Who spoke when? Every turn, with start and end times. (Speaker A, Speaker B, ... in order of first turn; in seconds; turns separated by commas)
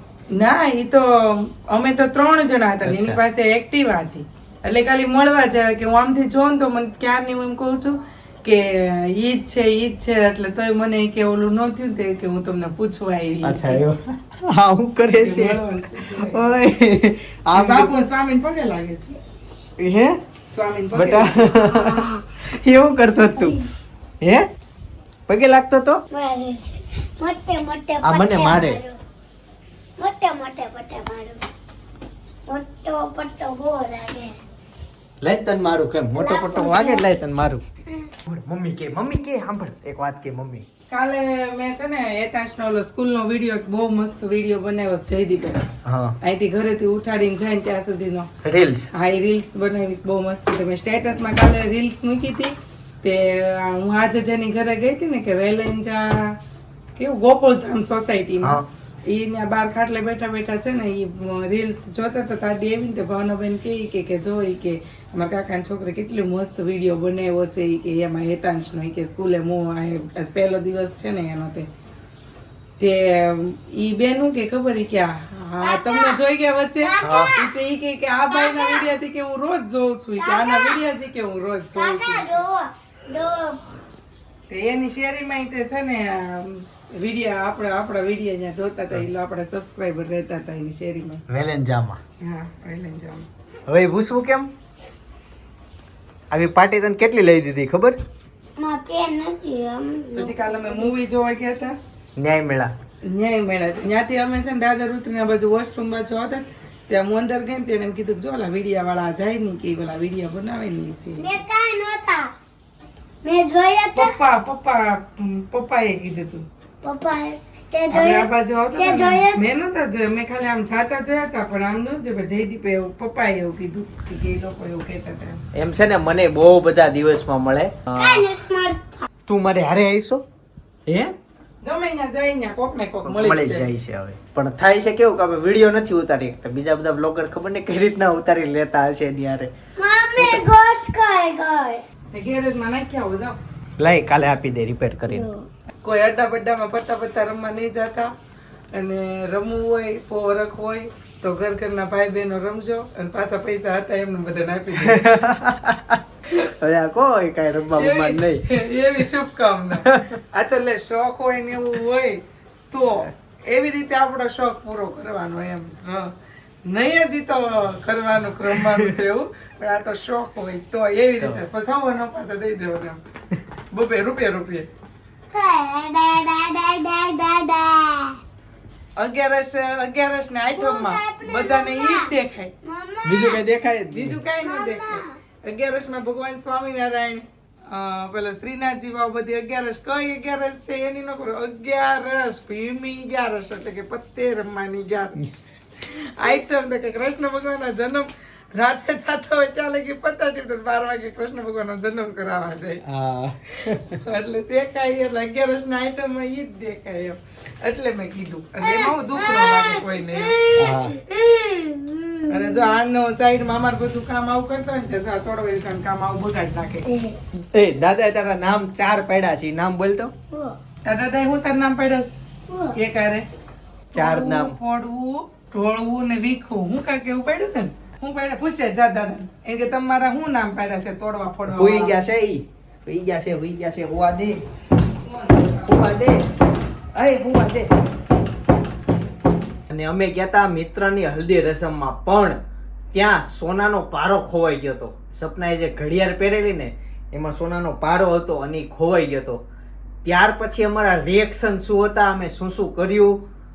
Speaker A: 0.3-13.8, Speaker B: 2.8-3.2, Speaker B: 13.4-17.9, Speaker A: 15.1-16.6, Speaker A: 17.5-19.2, Speaker B: 19.8-20.2, Speaker A: 20.5-21.9, Speaker B: 20.9-23.6, Speaker B: 25.3-26.0, Speaker C: 26.1-29.0, Speaker B: 28.0-28.8, Speaker C: 30.0-31.4, Speaker C: 32.5-34.4, Speaker B: 35.2-37.6, Speaker C: 36.1-37.1, Speaker B: 38.2-40.6, Speaker A: 40.9-45.6, Speaker B: 45.8-46.2, Speaker A: 46.2-48.3, Speaker B: 48.4-48.9, Speaker A: 48.9-56.4, Speaker A: 57.0-71.7, Speaker A: 72.8-82.3, Speaker C: 75.6-76.2, Speaker C: 76.8-77.5, Speaker B: 77.0-77.3, Speaker C: 78.3-78.9, Speaker C: 80.2-80.8, Speaker C: 81.7-83.6, Speaker A: 84.5-91.2, Speaker B: 91.3-92.0, Speaker A: 92.2-93.3, Speaker B: 93.7-94.5, Speaker B: 96.3-98.0, Speaker C: 98.6-100.9, Speaker A: 100.2-101.8, Speaker B: 102.2-102.7, Speaker A: 103.1-111.3, Speaker C: 111.2-112.3, Speaker C: 113.2-114.2, Speaker A: 114.0-116.5, Speaker C: 116.8-119.4, Speaker A: 117.9-125.4, Speaker B: 125.5-128.3, Speaker C: 128.0-129.1, Speaker B: 129.3-130.2, Speaker B: 130.9-131.1, Speaker A: 131.6-133.7, Speaker B: 133.0-139.5, Speaker C: 139.8-141.8, Speaker B: 140.2-140.4, Speaker A: 142.1-143.4, Speaker B: 143.8-145.3, Speaker C: 145.1-145.5, Speaker A: 145.8-148.1, Speaker A: 148.7-155.1, Speaker B: 154.8-158.4, Speaker A: 157.8-166.1, Speaker B: 159.7-160.2, Speaker A: 166.7-173.0, Speaker B: 168.4-169.0, Speaker B: 171.2-171.4, Speaker A: 173.7-174.7, Speaker C: 175.3-178.2, Speaker A: 179.0-182.6, Speaker C: 180.6-182.1, Speaker C: 182.6-183.4, Speaker B: 183.0-184.2, Speaker A: 183.9-195.2, Speaker C: 184.4-185.2, Speaker A: 195.8-202.8, Speaker B: 202.8-203.9, Speaker A: 203.5-210.4, Speaker C: 208.6-212.7, Speaker B: 210.6-210.9, Speaker A: 212.3-216.8, Speaker C: 216.8-217.2, Speaker B: 217.5-220.1, Speaker C: 220.3-220.6, Speaker A: 220.8-222.2, Speaker C: 222.5-222.8, Speaker A: 222.7-223.3, Speaker A: 223.9-232.0, Speaker B: 223.9-224.6, Speaker B: 231.4-234.4, Speaker A: 235.0-235.9, Speaker B: 235.6-236.3, Speaker B: 236.9-237.7, Speaker B: 239.7-242.4, Speaker B: 242.9-249.4, Speaker B: 250.0-253.2